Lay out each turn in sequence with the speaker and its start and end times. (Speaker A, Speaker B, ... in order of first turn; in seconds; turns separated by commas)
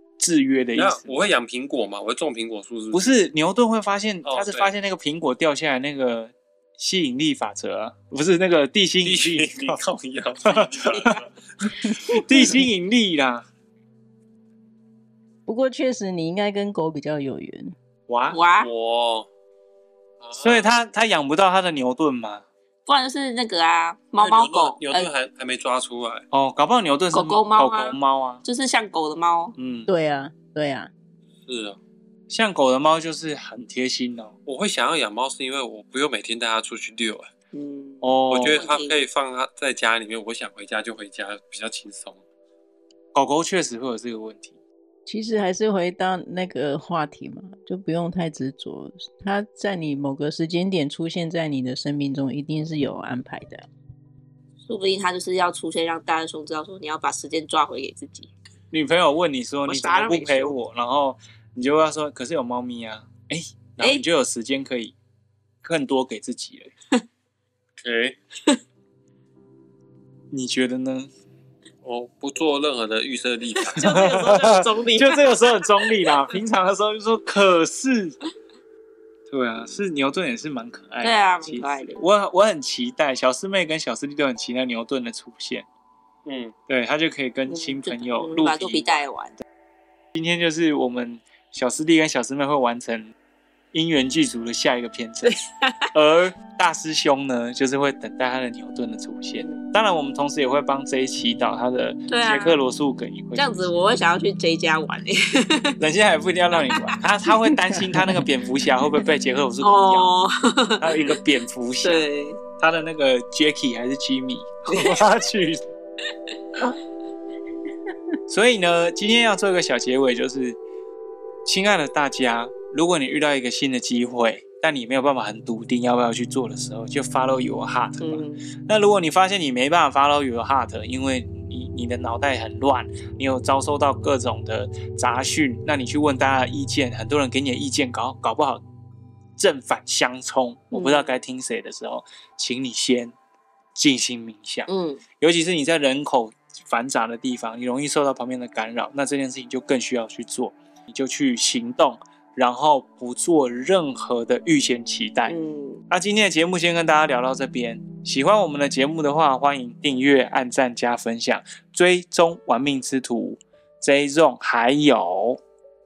Speaker A: 0.2-1.1, Speaker B: 0.8-3.0, Speaker A: 2.9-9.8, Speaker B: 4.2-4.7, Speaker B: 9.0-11.3, Speaker A: 10.4-11.2, Speaker A: 11.9-13.4, Speaker C: 15.5-17.7, Speaker A: 18.1-18.4, Speaker D: 18.3-18.7, Speaker B: 18.6-19.3, Speaker B: 20.2-20.7, Speaker A: 20.4-22.4, Speaker D: 22.9-25.1, Speaker B: 24.2-26.2, Speaker A: 26.3-28.4, Speaker D: 27.1-29.5, Speaker A: 29.6-29.9, Speaker C: 29.9-30.9, Speaker B: 31.4-31.8, Speaker A: 32.3-34.3, Speaker B: 34.5-37.3, Speaker D: 37.5-39.0, Speaker A: 38.0-38.6, Speaker B: 38.3-42.2, Speaker A: 43.1-44.5, Speaker C: 45.0-53.7, Speaker D: 54.6-58.3, Speaker A: 58.7-64.9, Speaker D: 59.7-60.5, Speaker A: 65.6-66.7, Speaker B: 67.8-68.2, Speaker A: 70.3-71.1, Speaker B: 71.8-73.9, Speaker D: 73.7-76.1, Speaker A: 73.8-78.2, Speaker A: 79.3-85.7, Speaker D: 81.0-82.0, Speaker B: 86.2-86.5, Speaker A: 86.7-89.0, Speaker D: 87.5-89.3, Speaker A: 90.1-93.1, Speaker A: 93.7-95.4, Speaker D: 95.2-95.9, Speaker A: 95.9-103.7, Speaker D: 99.3-99.6, Speaker D: 102.1-102.6, Speaker D: 103.3-105.8, Speaker A: 105.8-110.1, Speaker D: 106.5-108.1, Speaker D: 109.6-111.2, Speaker A: 110.8-115.6, Speaker D: 111.8-112.4, Speaker D: 114.7-115.0, Speaker A: 118.3-120.6, Speaker A: 121.4-138.6, Speaker D: 128.0-128.4, Speaker A: 139.4-143.1, Speaker D: 140.7-141.1, Speaker A: 143.7-144.7, Speaker D: 144.7-145.0, Speaker A: 145.2-155.3, Speaker D: 155.3-155.8, Speaker A: 155.9-165.4